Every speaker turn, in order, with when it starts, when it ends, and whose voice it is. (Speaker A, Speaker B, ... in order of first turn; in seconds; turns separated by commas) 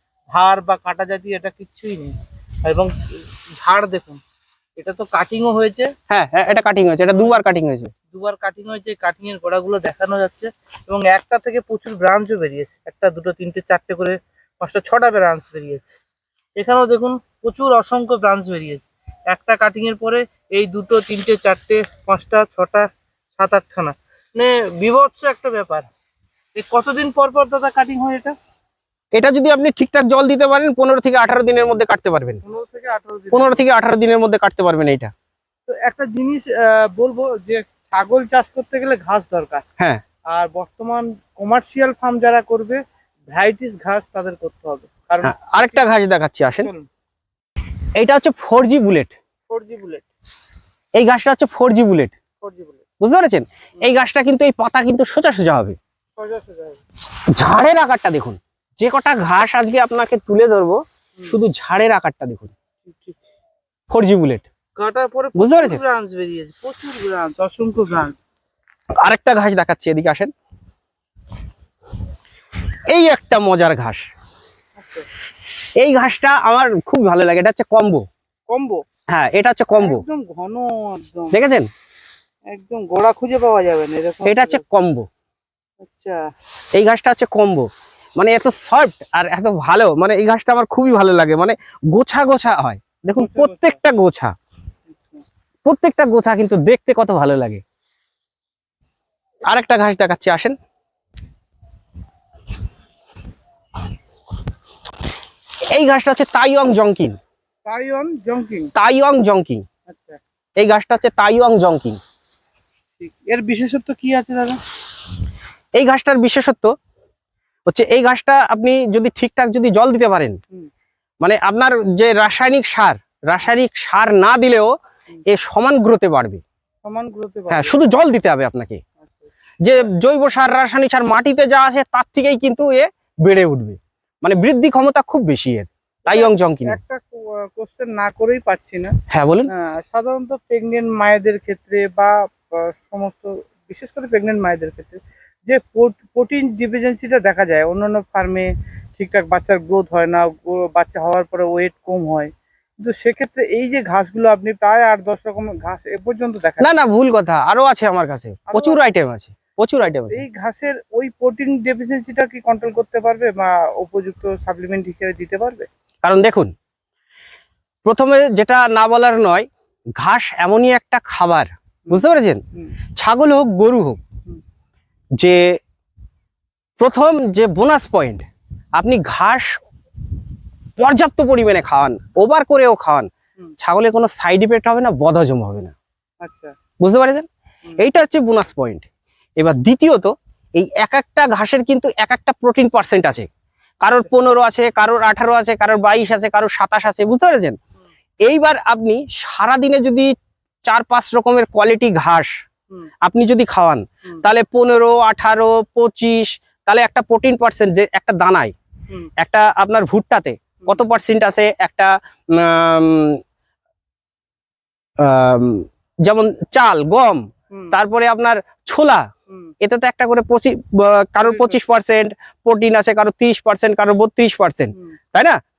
Speaker A: 0.3-4.2, Speaker A: 4.8-5.9, Speaker B: 6.1-7.9, Speaker A: 6.5-7.4, Speaker A: 8.1-15.9, Speaker A: 16.6-25.9, Speaker A: 26.6-28.3, Speaker B: 29.1-32.4, Speaker A: 32.4-33.6, Speaker B: 33.3-35.1, Speaker A: 35.7-39.6, Speaker A: 40.3-42.8, Speaker A: 43.3-45.8, Speaker B: 45.2-46.7, Speaker A: 46.6-46.9, Speaker B: 48.0-49.1, Speaker A: 49.5-50.1, Speaker B: 51.0-52.1, Speaker A: 52.4-52.8, Speaker B: 53.0-55.8, Speaker A: 56.1-56.8, Speaker B: 57.4-62.5, Speaker A: 62.8-63.2, Speaker B: 63.9-64.5, Speaker A: 64.8-68.2, Speaker B: 65.3-65.8, Speaker B: 69.0-70.3, Speaker B: 72.9-74.1, Speaker A: 74.8-75.1, Speaker B: 75.8-78.1, Speaker A: 78.5-78.8, Speaker B: 79.1-80.0, Speaker A: 79.7-81.4, Speaker B: 81.3-81.7, Speaker A: 82.5-84.6, Speaker B: 84.2-85.1, Speaker A: 85.8-86.3, Speaker B: 86.7-94.3, Speaker A: 93.1-93.8, Speaker A: 94.9-95.2, Speaker B: 95.6-97.6, Speaker B: 99.5-100.6, Speaker B: 105.7-107.2, Speaker A: 107.6-108.7, Speaker B: 108.7-109.6, Speaker A: 109.9-110.2, Speaker B: 110.6-112.0, Speaker A: 113.0-114.6, Speaker B: 115.7-116.7, Speaker B: 117.7-120.4, Speaker B: 121.2-124.7, Speaker B: 125.3-126.4, Speaker A: 126.8-127.8, Speaker B: 127.5-128.8, Speaker A: 129.0-129.3, Speaker B: 129.6-136.8, Speaker A: 136.1-138.9, Speaker B: 139.1-139.5, Speaker A: 139.5-156.8, Speaker B: 156.6-160.2, Speaker A: 158.5-158.8, Speaker A: 160.1-165.7, Speaker B: 166.0-166.5, Speaker B: 167.8-172.4, Speaker A: 171.9-172.7, Speaker B: 172.9-174.0, Speaker B: 175.2-175.6, Speaker B: 176.8-178.2, Speaker B: 178.8-179.6, Speaker B: 180.8-185.7, Speaker A: 186.2-186.5, Speaker B: 186.8-187.3, Speaker B: 187.8-188.9, Speaker B: 189.4-193.3, Speaker B: 193.8-197.6, Speaker B: 198.2-200.1, Speaker B: 200.7-202.3, Speaker B: 203.0-208.5, Speaker B: 209.2-213.2, Speaker B: 215.0-219.1, Speaker A: 217.5-217.8, Speaker B: 219.6-225.4, Speaker A: 221.2-221.6